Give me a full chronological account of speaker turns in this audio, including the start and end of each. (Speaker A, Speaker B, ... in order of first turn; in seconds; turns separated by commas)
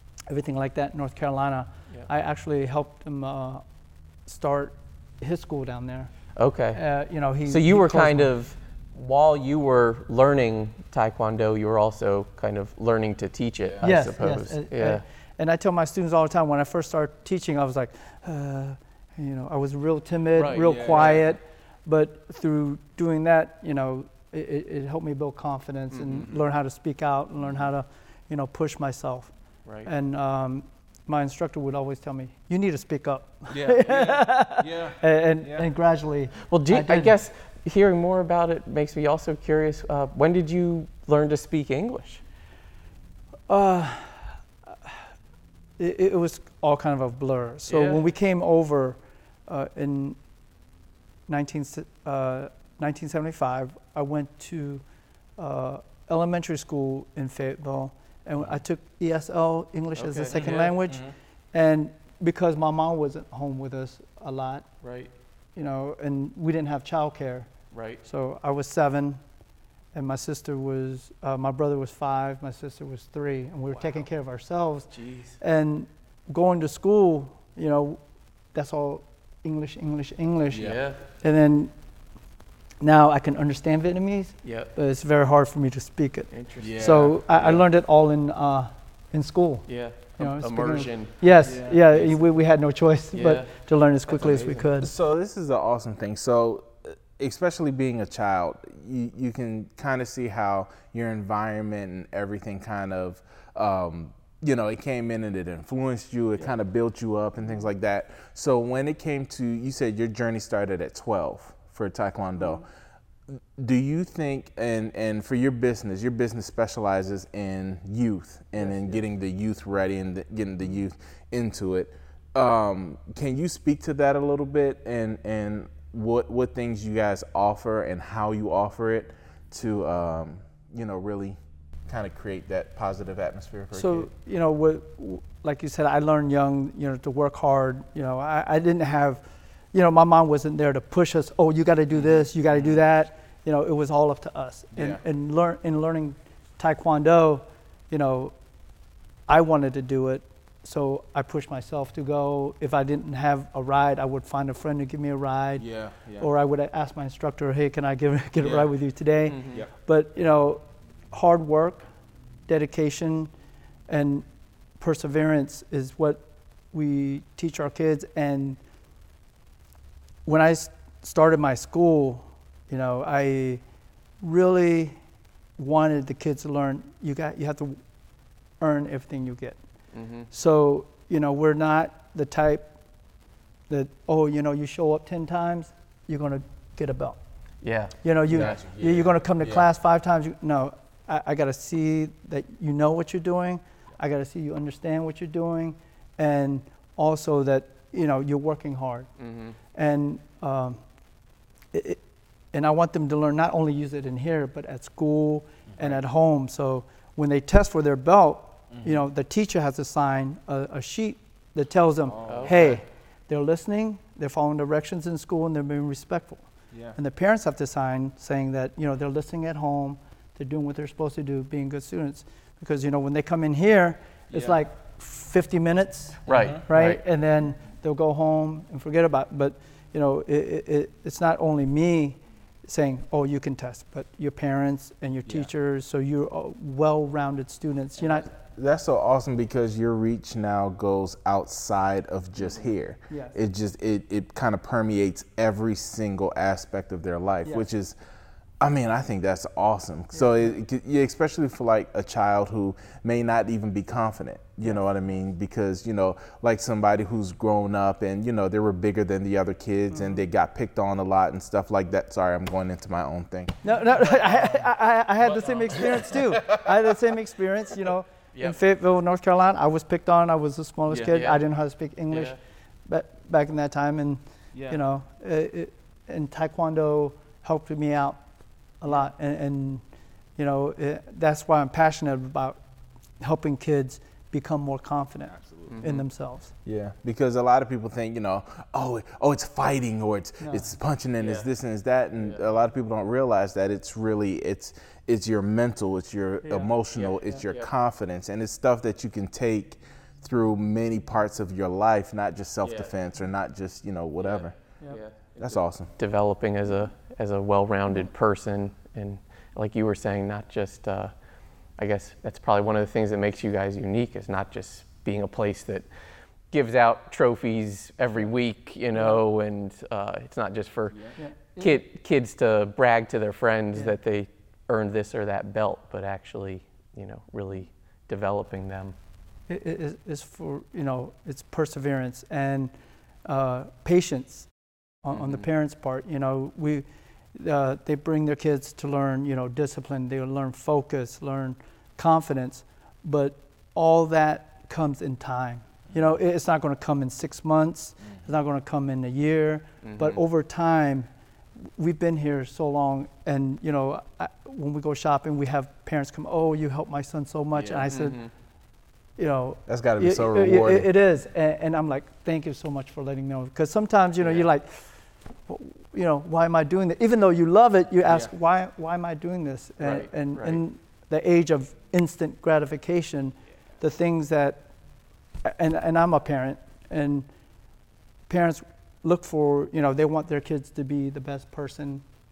Speaker A: 0.3-3.6, Speaker A: 4.3-6.1, Speaker B: 6.4-6.8, Speaker A: 6.7-8.3, Speaker B: 7.5-15.0, Speaker A: 13.8-29.3, Speaker B: 20.4-21.2, Speaker C: 20.6-21.2, Speaker B: 25.9-26.3, Speaker A: 29.9-37.1, Speaker C: 33.5-35.7, Speaker B: 36.5-42.2, Speaker A: 43.5-44.3, Speaker A: 45.8-50.2, Speaker B: 47.7-48.0, Speaker A: 51.3-54.8, Speaker A: 55.4-64.7, Speaker B: 60.0-60.8, Speaker C: 60.4-61.1, Speaker B: 64.8-65.1, Speaker A: 65.6-67.5, Speaker B: 67.7-68.0, Speaker A: 68.0-69.2, Speaker A: 69.9-78.0, Speaker B: 74.9-75.4, Speaker A: 78.5-80.7, Speaker C: 80.5-80.8, Speaker B: 80.5-81.0, Speaker A: 81.2-81.7, Speaker A: 82.8-89.7, Speaker B: 84.4-84.7, Speaker B: 86.3-87.0, Speaker C: 86.6-87.6, Speaker B: 89.7-91.1, Speaker A: 90.2-94.9, Speaker C: 91.4-91.9, Speaker B: 93.1-93.5, Speaker C: 94.2-112.6, Speaker C: 113.3-134.1, Speaker A: 133.7-148.3, Speaker C: 144.8-145.0, Speaker A: 149.3-155.7, Speaker C: 155.6-156.3, Speaker A: 156.2-161.9, Speaker C: 158.4-158.7, Speaker B: 159.3-159.7, Speaker A: 162.5-163.3, Speaker A: 163.9-164.3, Speaker A: 164.8-168.6, Speaker A: 170.2-173.6, Speaker A: 174.2-175.0, Speaker A: 175.6-177.8, Speaker A: 178.6-179.6, Speaker B: 179.9-180.3, Speaker A: 180.3-182.7, Speaker A: 183.7-187.2, Speaker B: 187.6-188.6, Speaker A: 188.0-199.1, Speaker C: 188.3-189.7, Speaker B: 199.2-199.6, Speaker A: 199.7-200.8, Speaker A: 201.7-202.0, Speaker A: 202.5-238.3, Speaker C: 208.7-209.0, Speaker C: 212.1-212.8, Speaker B: 212.3-212.6, Speaker C: 224.3-224.6, Speaker B: 226.3-227.0, Speaker C: 226.3-226.6, Speaker C: 238.3-247.9, Speaker A: 243.1-243.4, Speaker C: 248.6-263.6, Speaker A: 250.2-250.5, Speaker A: 259.9-260.2, Speaker A: 263.6-278.2, Speaker C: 265.6-266.9, Speaker B: 271.0-271.4, Speaker B: 272.1-272.4, Speaker A: 278.8-279.8, Speaker A: 280.4-282.6, Speaker A: 283.2-286.5, Speaker C: 285.4-285.8, Speaker B: 285.7-286.1, Speaker C: 286.6-304.6, Speaker A: 290.4-290.7, Speaker B: 291.2-291.5, Speaker A: 296.4-296.7, Speaker B: 296.9-297.7, Speaker B: 302.6-302.9, Speaker B: 304.2-311.1, Speaker C: 305.4-305.9, Speaker B: 311.8-315.9, Speaker B: 316.5-328.9, Speaker A: 318.9-319.2, Speaker A: 321.2-321.8, Speaker A: 329.5-332.7, Speaker A: 333.3-334.5, Speaker A: 335.0-351.1, Speaker B: 335.1-335.4, Speaker B: 349.8-350.2, Speaker A: 351.8-358.2, Speaker B: 357.6-358.3, Speaker A: 359.2-364.8, Speaker C: 359.7-360.9, Speaker B: 364.2-364.5, Speaker A: 365.5-374.6, Speaker B: 369.8-370.6, Speaker A: 375.4-377.3, Speaker A: 378.3-382.0